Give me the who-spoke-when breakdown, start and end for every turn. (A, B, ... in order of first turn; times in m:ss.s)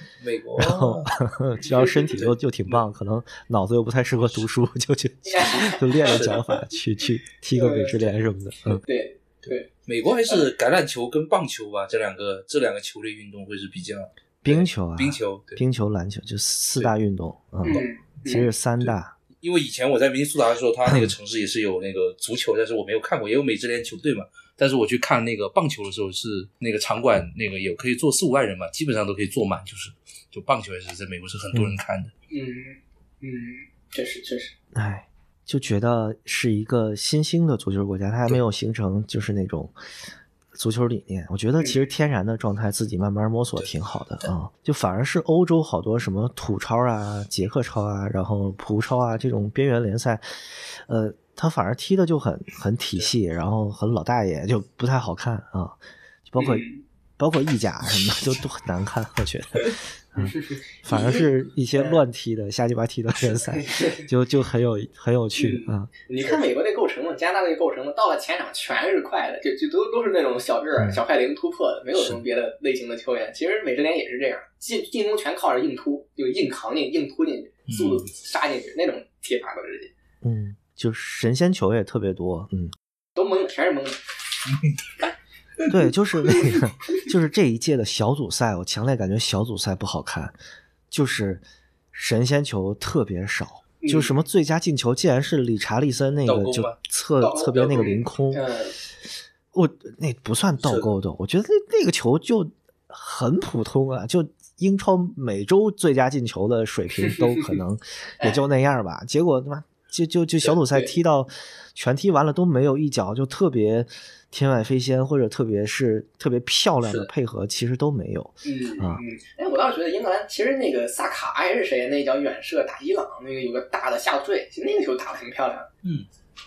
0:00.2-0:01.1 A
0:00.6-0:08.8 B
0:01.7-0:02.2 C
0:05.2-0:06.4 C
0:06.1-0:06.4 A
0:07.6-0:08.0 C
0:08.8-0:09.7 C
0:09.4-0:15.6 A
0:14.4-0:19.2 B
0:17.6-0:18.5 C
0:18.8-0:32.1 A
0:20.9-0:21.1 B
0:32.3-0:34.5 C
0:34.7-0:39.8 B
0:40.5-0:56.6 B
0:41.6-0:41.9 C
0:43.6-0:44.3 A
0:56.4-0:56.8 C
0:57.2-1:06.4 B
1:00.2-1:02.0 C
1:03.5-1:04.1 C
1:05.4-1:19.9 C
1:12.0-1:12.2 A
1:17.7-1:18.1 A
1:20.2-1:22.7 B
1:23.2-1:24.0 C
1:25.7-1:30.4 B
1:30.9-1:38.4 B
1:33.8-1:34.2 C
1:36.2-1:36.8 A
1:37.2-1:38.8 C
1:39.5-1:59.0 B
1:40.6-1:40.9 A
1:47.0-1:47.5 C
1:56.8-1:57.1 A
1:58.4-2:05.7 C